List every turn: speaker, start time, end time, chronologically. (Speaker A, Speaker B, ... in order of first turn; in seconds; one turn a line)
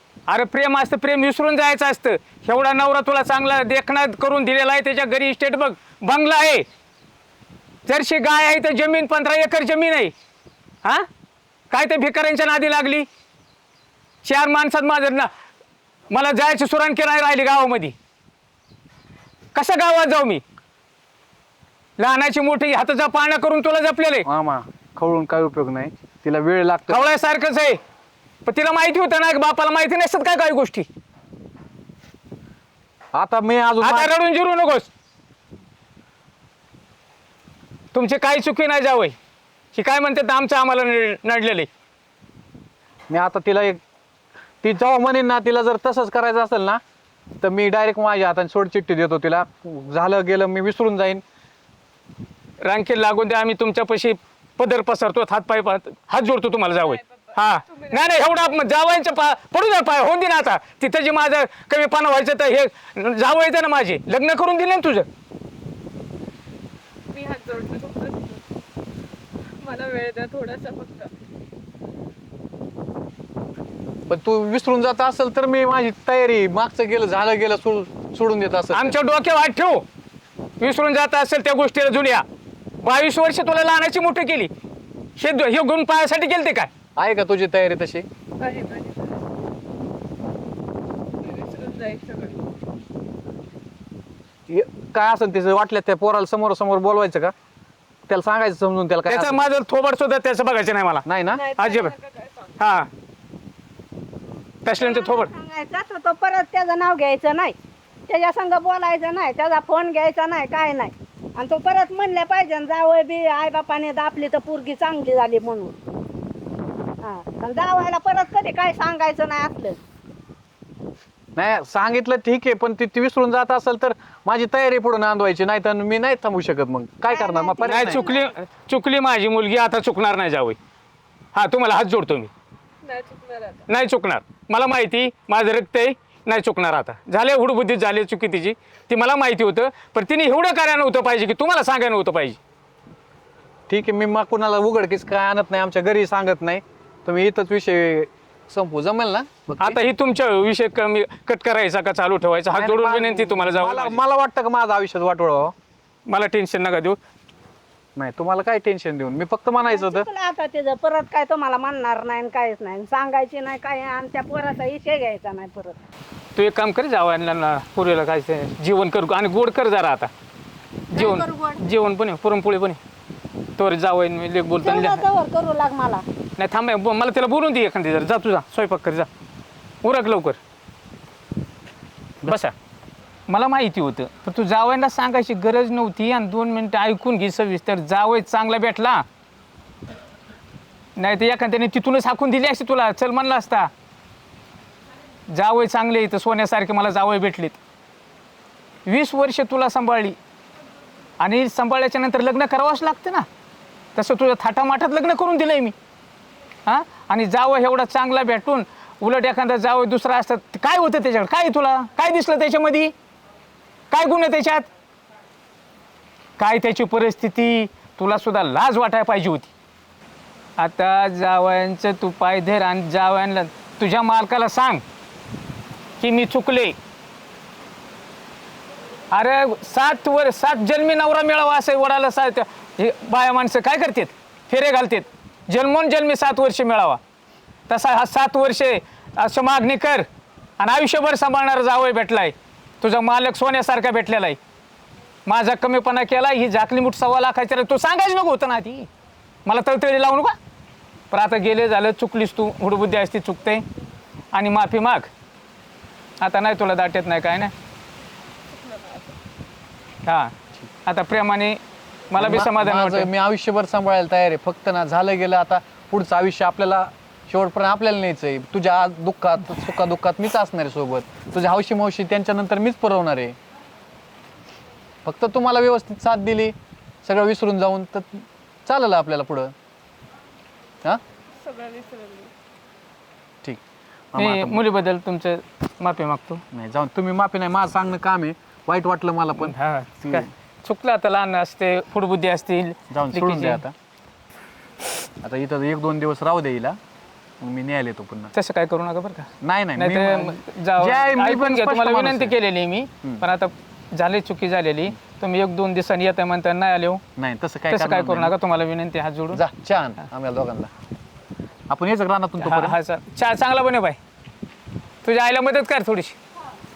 Speaker A: 0.3-6.6
Speaker A: 7.8-10.1
Speaker A: 11.7-13.1
Speaker A: 14.2-15.3
Speaker A: 16.1-17.9
Speaker A: 19.5-20.4
Speaker A: 22.0-24.2
Speaker B: 24.2-27.0
Speaker A: 26.9-27.8
Speaker A: 28.4-30.9
Speaker B: 33.1-34.1
Speaker A: 33.8-34.9
Speaker A: 37.9-39.1
Speaker A: 39.7-41.7
Speaker B: 43.1-43.8
Speaker B: 44.6-46.8
Speaker B: 47.4-51.2
Speaker A: 52.6-65.1
Speaker C: 67.1-68.4
Speaker C: 69.6-71.1
Speaker B: 74.1-78.9
Speaker A: 78.7-79.8
Speaker A: 80.6-82.2
Speaker A: 82.8-84.5
Speaker A: 85.2-86.7
Speaker B: 87.0-88.0
Speaker C: 88.4-88.9
Speaker C: 91.3-92.3
Speaker B: 94.5-97.3
Speaker B: 98.1-99.5
Speaker A: 99.0-101.9
Speaker B: 101.0-101.5
Speaker C: 101.6-102.3
Speaker A: 102.6-102.9
Speaker A: 104.6-105.3
Speaker D: 104.7-107.5
Speaker D: 108.1-115.7
Speaker D: 117.0-119.8
Speaker B: 121.3-128.0
Speaker D: 127.1-128.3
Speaker A: 127.7-130.6
Speaker A: 131.3-132.3
Speaker C: 132.9-133.6
Speaker A: 133.7-142.4
Speaker B: 143.7-149.8
Speaker A: 149.6-154.0
Speaker B: 152.5-155.5
Speaker A: 156.1-157.0
Speaker B: 157.9-160.1
Speaker D: 159.6-165.8
Speaker A: 166.3-170.1
Speaker A: 170.9-172.8
Speaker D: 170.9-171.6
Speaker A: 173.6-175.0
Speaker D: 174.6-176.0
Speaker A: 176.4-179.1
Speaker A: 179.8-180.4
Speaker A: 182.2-182.5
Speaker A: 183.3-189.0
Speaker A: 191.0-193.7
Speaker A: 195.3-197.6
Speaker A: 198.8-200.2
Speaker A: 201.2-203.3
Speaker A: 203.9-205.7
Speaker A: 206.7-212.9
Speaker A: 213.9-214.7
Speaker A: 216.4-219.5
Speaker A: 220.6-224.8
Speaker A: 226.0-226.8
Speaker A: 229.1-237.0
Speaker A: 237.7-240.1
Speaker A: 240.6-244.4
Speaker A: 245.2-248.9
Speaker A: 249.4-250.3
Speaker A: 251.1-253.6
Speaker A: 254.3-255.1
Speaker A: 256.2-257.5
Speaker A: 260.0-260.3
Speaker A: 260.8-263.1
Speaker B: 262.1-273.4
Speaker B: 275.0-279.5
Speaker C: 281.4-282.3
Speaker B: 284.1-284.6
Speaker A: 284.1-286.4
Speaker B: 286.5-290.3
Speaker A: 289.4-293.6
Speaker B: 292.9-293.7
Speaker B: 295.2-296.8
Speaker B: 297.4-298.3
Speaker A: 298.3-307.0
Speaker B: 299.4-302.4
Speaker B: 307.1-308.3
Speaker A: 307.7-309.4
Speaker B: 309.3-310.7
Speaker B: 311.7-312.8
Speaker A: 312.4-314.0
Speaker A: 315.0-316.1